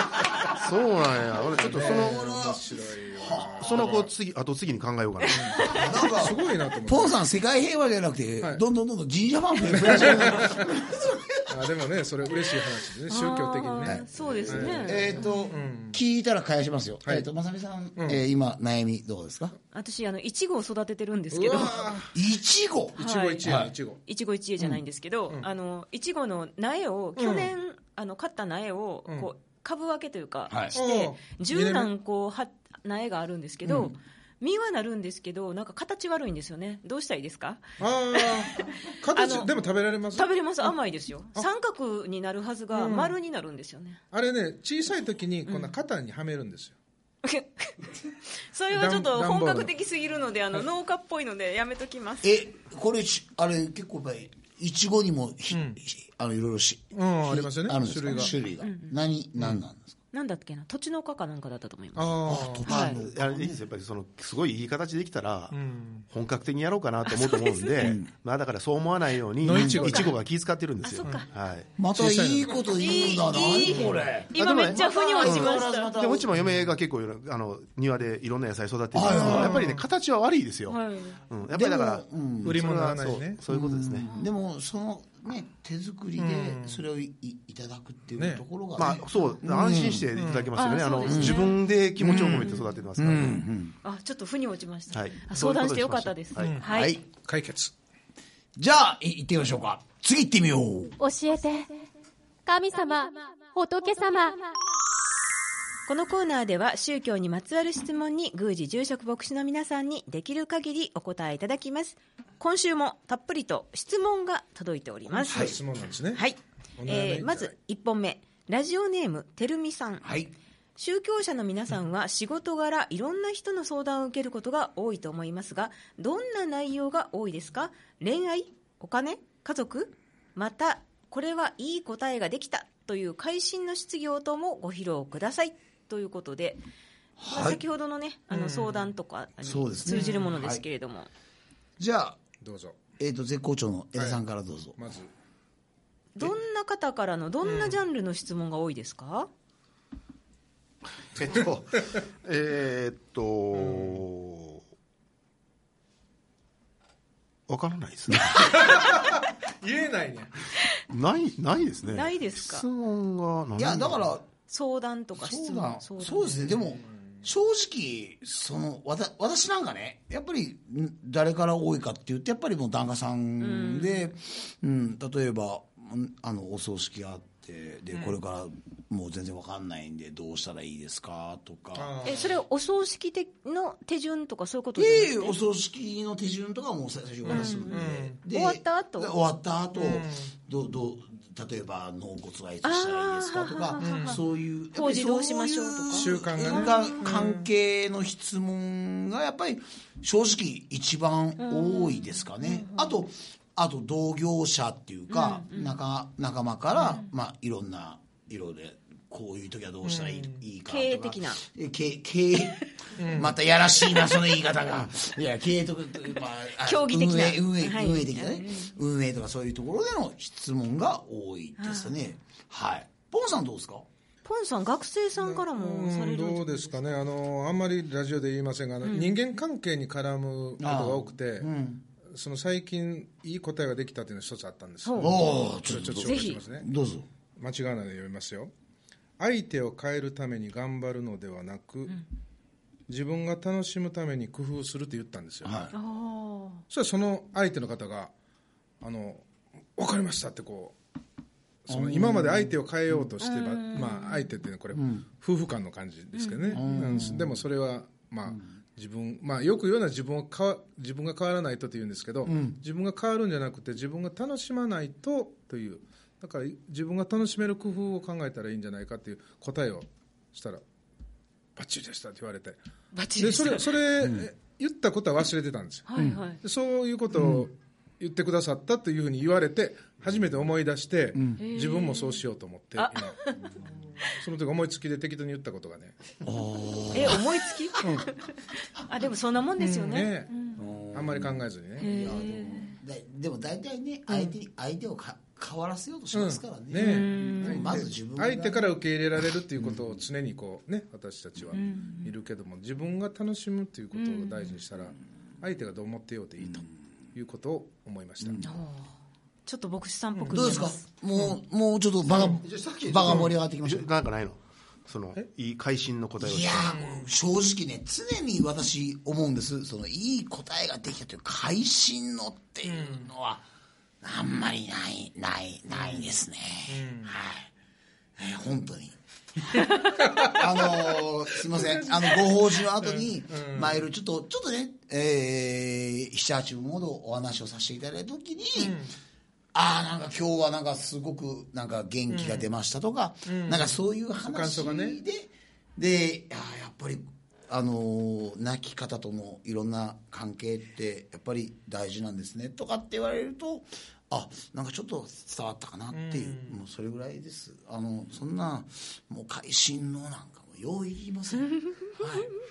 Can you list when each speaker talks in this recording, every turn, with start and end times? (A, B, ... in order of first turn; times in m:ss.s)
0:00.6-0:02.4 A
0:01.5-0:04.1 B
0:01.7-0:03.9 C
0:03.6-0:05.7 A
0:05.3-0:05.7 D
0:05.3-0:07.2 B
0:05.6-0:11.8 C
0:09.7-0:10.7 B
0:11.5-0:16.0 B
0:13.1-0:15.3 D
0:13.8-0:19.6 C
0:19.7-0:21.9 D
0:21.3-0:22.2 B
0:22.1-0:23.7 C
0:23.0-0:24.0 B
0:23.0-0:23.5 D
0:24.0-0:39.5 D
0:27.2-0:27.5 B
0:30.5-0:30.8 C
0:30.7-0:31.9 B
0:33.7-0:33.9 B
0:37.8-0:40.7 B
0:40.1-0:44.0 D
0:42.7-0:43.2 B
0:44.1-0:46.8 B
0:45.5-0:45.7 D
0:47.2-0:52.3 D
0:48.7-0:49.7 B
0:52.2-1:00.0 C
0:55.5-0:55.8 B
0:56.9-0:58.3 B
0:58.1-0:59.0 D
1:00.1-1:03.0 D
1:02.0-1:02.9 B
1:02.2-1:03.6 C
1:02.7-1:11.7 A
1:05.5-1:06.0 B
1:07.1-1:07.9 D
1:07.8-1:08.1 C
1:09.4-1:10.2 B
1:09.4-1:09.9 C
1:09.7-1:10.1 D
1:10.8-1:11.3 D
1:11.8-1:16.3 C
1:11.9-1:14.1 B
1:12.6-1:15.9 D
1:14.3-1:24.1 A
1:16.4-1:16.7 B
1:18.9-1:19.7 C
1:19.1-1:19.8 B
1:20.7-1:21.2 D
1:21.4-1:22.6 C
1:22.4-1:23.4 B
1:23.5-1:30.1 C
1:26.2-1:26.8 B
1:28.2-1:28.4 B
1:28.8-1:33.4 A
1:30.2-1:30.5 B
1:30.6-1:32.7 D
1:31.1-1:31.4 C
1:32.0-1:33.8 C
1:33.8-1:37.0 D
1:34.9-1:36.6 A
1:36.4-1:37.7 B
1:36.6-1:37.0 C
1:38.6-1:41.0 C
1:41.0-1:41.8 E
1:42.5-1:44.5 E
1:45.9-1:55.6 D
1:55.1-1:56.2 B
1:55.3-1:55.6 C
1:56.1-2:00.0 D
1:56.8-1:57.5 B
2:00.0-2:00.3 C
2:00.8-2:16.6 D
2:17.2-2:17.6 C
2:17.3-2:21.1 D
2:18.3-2:18.9 B
2:19.4-2:20.6 C
2:19.9-2:20.4 B
2:21.8-2:22.2 C
2:22.4-2:22.8 B
2:23.0-2:24.8 C
2:24.8-2:25.1 B
2:26.2-2:29.3 D
2:27.4-2:27.8 B
2:31.1-2:34.6 A
2:33.5-2:34.0 B
2:37.5-2:38.7 A
2:38.3-2:40.4 B
2:40.9-2:44.1 A
2:41.9-2:42.7 D
2:43.6-2:44.3 C
2:44.5-2:46.5 D
2:45.2-3:01.9 C
2:46.3-2:47.0 B
2:53.4-2:54.1 D
3:01.8-3:02.3 B
3:02.0-3:05.4 D
3:04.8-3:43.9 C
3:07.2-3:08.2 B
3:07.3-3:09.1 D
3:09.8-3:10.3 B
3:12.6-3:14.2 D
3:13.8-3:14.2 B
3:14.7-3:17.0 D
3:15.9-3:17.5 B
3:21.4-3:23.0 D
3:25.1-3:25.8 D
3:29.8-3:30.4 B
3:30.7-3:31.4 D
3:33.0-3:33.4 B
3:36.6-3:38.8 D
3:41.6-3:41.9 D
3:44.2-3:46.8 D
3:45.2-3:51.5 B
3:48.8-3:49.2 D
3:50.6-3:51.8 C
3:52.0-3:56.7 B
3:54.8-3:55.1 D
3:55.0-3:57.1 C
3:56.0-3:56.4 D
3:57.4-3:58.5 B
3:59.2-4:02.0 B
4:02.9-4:05.6 B
4:05.4-4:05.8 C
4:05.7-4:06.6 D
4:06.7-4:08.1 B
4:08.8-4:10.8 B
4:11.7-4:30.6 B
4:11.7-4:13.1 C
4:13.2-4:14.3 D
4:14.7-4:15.1 C
4:16.2-4:16.6 D
4:16.5-4:17.4 C
4:22.2-4:22.6 C
4:31.6-4:32.6 B
4:32.9-4:33.8 D
4:33.2-4:43.2 B
4:34.0-4:34.3 C
4:35.9-4:36.4 D
4:36.0-4:36.2 C
4:37.1-4:37.5 C
4:41.2-4:41.4 C
4:41.4-4:42.2 D
4:42.8-4:43.4 D
4:44.1-4:46.0 B
4:46.2-4:47.4 C
4:46.9-4:50.6 D
4:47.8-4:48.1 B
4:49.6-4:52.0 B
4:50.6-4:58.7 C
4:51.8-4:52.8 D
4:56.1-5:08.4 B
4:56.8-4:57.8 D
4:59.6-5:00.0 C
5:01.5-5:02.1 D
5:03.9-5:04.6 D
5:08.2-5:08.6 C
5:08.4-5:08.9 D
5:09.5-5:10.8 D
5:10.2-5:10.5 B
5:10.3-5:13.9 C
5:12.2-5:16.8 A
5:16.2-5:23.4 C
5:16.7-5:17.1 B
5:22.7-5:23.1 B
5:24.0-5:27.5 C
5:25.7-5:26.2 B
5:26.7-5:27.2 B
5:28.2-5:38.8 C
5:30.0-5:30.9 B
5:31.5-5:32.3 B
5:32.8-5:33.8 B
5:38.6-5:38.9 B
5:39.5-6:02.3 C
5:42.1-5:42.5 B
5:43.3-5:45.0 B
5:55.9-5:56.6 B